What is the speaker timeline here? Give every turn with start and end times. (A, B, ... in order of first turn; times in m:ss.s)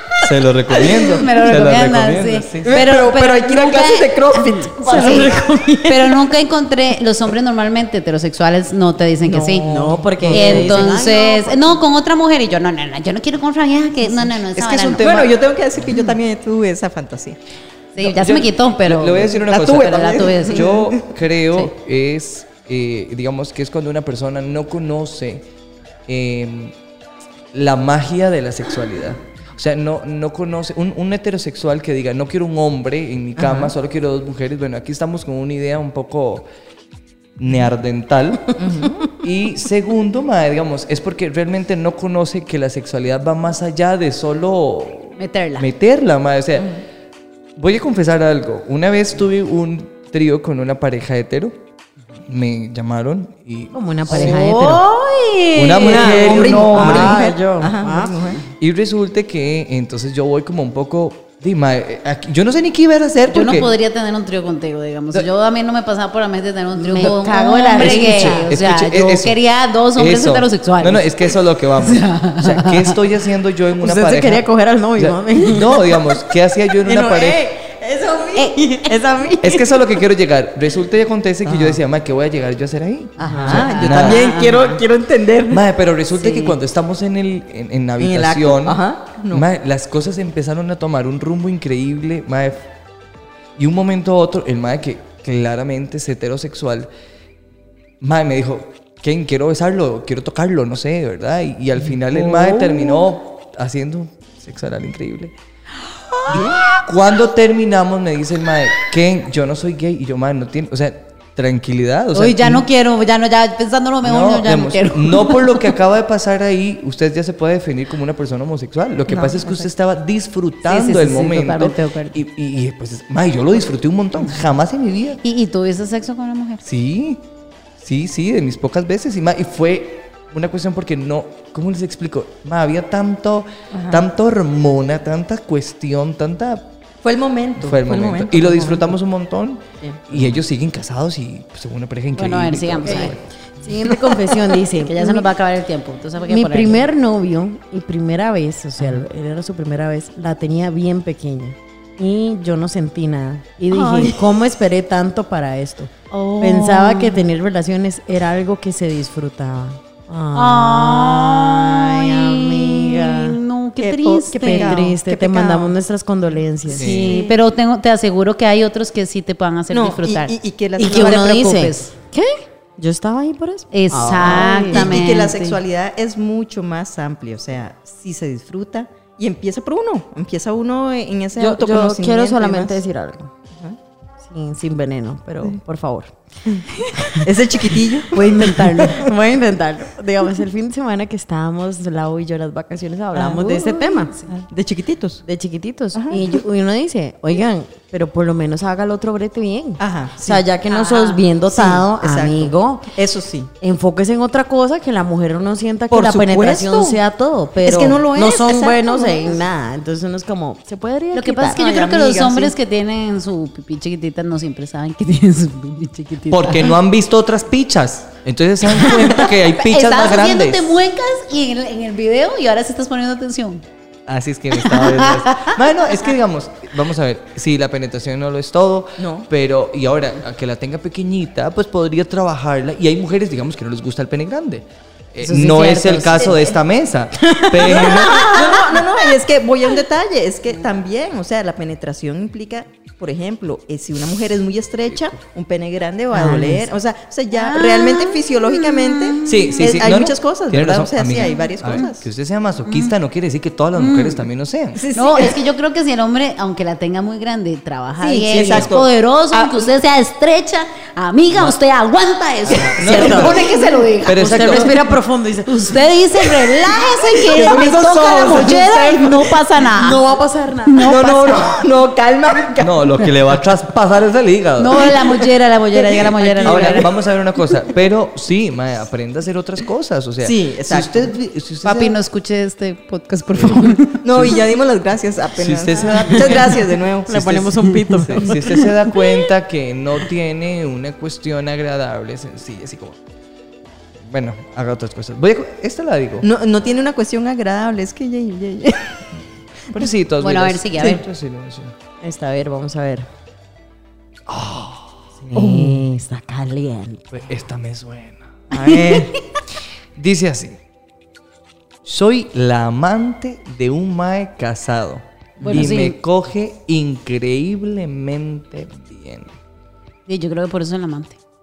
0:00.2-0:02.8 A
0:00.9-0:15.2 B
0:02.6-0:05.4 C
0:04.8-0:06.3 D
0:09.2-0:11.8 D
0:09.3-0:10.9 C
0:14.4-0:15.4 A
0:15.0-0:17.4 C
0:17.9-0:20.6 B
0:18.0-0:25.4 A
0:19.2-0:21.0 C
0:26.1-0:26.7 A
0:27.5-0:36.5 A
0:33.4-0:33.7 C
0:37.4-0:46.8 A
0:38.6-0:39.2 C
0:45.2-0:45.6 B
0:47.6-0:51.5 A
0:52.2-0:54.8 A
0:53.7-0:58.3 D
0:54.1-0:54.8 B
0:55.5-0:57.2 A
0:55.8-0:58.5 C
0:58.6-1:03.7 A
1:03.3-1:11.1 B
1:06.7-1:08.6 D
1:07.8-1:09.4 A
1:10.0-1:17.5 A
1:11.8-1:13.0 B
1:13.8-1:16.0 D
1:16.8-1:18.9 C
1:18.4-1:19.8 D
1:19.4-1:24.4 A
1:21.4-1:21.8 C
1:23.2-1:23.7 D
1:23.2-1:25.6 C
1:23.5-1:24.8 B
1:25.5-1:32.7 A
1:26.1-1:26.6 C
1:28.0-1:29.4 C
1:33.6-1:36.9 A
1:38.0-1:45.3 A
1:42.2-1:43.0 B
1:46.2-1:46.8 B
1:46.3-1:46.6 C
1:46.3-1:52.6 A
1:52.1-1:55.5 B
1:54.0-2:05.2 A
1:59.1-1:59.7 C
2:00.6-2:02.2 B
2:05.2-2:06.6 B
2:06.6-2:07.2 A
2:07.8-2:16.7 A
2:13.7-2:14.0 C
2:17.0-2:18.9 C
2:17.6-2:23.2 A
2:22.1-2:23.2 B
2:22.8-2:25.3 D
2:24.8-2:26.8 B
2:26.3-2:43.4 D
2:33.6-2:34.1 B
2:33.8-2:34.1 C
2:36.1-2:37.2 B
2:40.3-2:44.8 B
2:43.8-2:45.7 C
2:44.4-2:47.2 D
2:46.7-2:47.1 A
2:46.8-2:51.9 B
2:46.8-2:47.3 C
2:49.7-2:51.7 C
2:50.8-2:55.1 D
2:53.7-2:55.6 B
2:54.2-3:02.8 C
3:01.4-3:03.3 D
3:03.5-3:03.8 C
3:04.2-3:14.1 D
3:07.2-3:09.1 C
3:08.3-3:08.9 B
3:13.1-3:15.2 C
3:15.2-3:22.9 D
3:15.9-3:16.4 C
3:19.8-3:20.5 C
3:20.7-3:21.2 B
3:21.5-3:23.5 C
3:23.6-3:31.6 D
3:25.9-3:27.0 C
3:27.6-3:29.4 C
3:31.1-3:36.7 B
3:31.5-3:32.5 C
3:36.3-3:40.8 A
3:38.8-3:43.6 B
3:44.1-3:58.4 A
3:44.6-3:45.5 B
3:49.0-3:49.3 C
3:55.2-3:56.4 B
3:56.2-3:56.5 C
3:57.2-3:59.2 D
3:57.6-4:12.0 C
4:06.1-4:06.7 D
4:07.3-4:09.6 B
4:09.2-4:14.8 A
4:11.2-4:11.9 B
4:12.6-4:12.9 B
4:13.8-4:14.2 B
4:14.7-4:15.4 C
4:14.9-4:24.7 B
4:18.0-4:19.7 C
4:18.3-4:18.7 A
4:21.3-4:21.5 A
4:22.4-4:23.5 A
4:22.8-4:23.5 D
4:24.0-4:24.7 A
4:24.1-4:26.5 D
4:25.4-4:30.0 B
4:27.2-4:29.4 C
4:29.6-4:31.6 D
4:30.6-4:31.5 B
4:30.8-4:32.9 C
4:32.6-4:34.9 A
4:34.6-4:36.9 B
4:35.7-4:36.9 C
4:36.4-4:42.0 A
4:40.2-4:41.2 C
4:41.6-4:44.3 B
4:43.3-4:44.4 A
4:44.0-4:47.5 C
4:45.4-4:47.4 A
4:47.1-4:48.6 D
4:47.6-4:48.0 B
4:48.0-4:53.0 A
4:54.1-4:56.3 A
4:56.2-4:59.0 C
4:59.7-5:01.7 A
5:00.2-5:01.0 B
5:02.0-5:03.1 D
5:04.3-5:05.0 A
5:05.2-5:07.3 D
5:05.3-5:05.8 C
5:07.1-5:09.0 A
5:08.5-5:09.1 C
5:10.0-5:10.6 A
5:11.8-5:19.3 A
5:15.4-5:15.7 C
5:15.4-5:16.0 B
5:20.0-5:21.2 B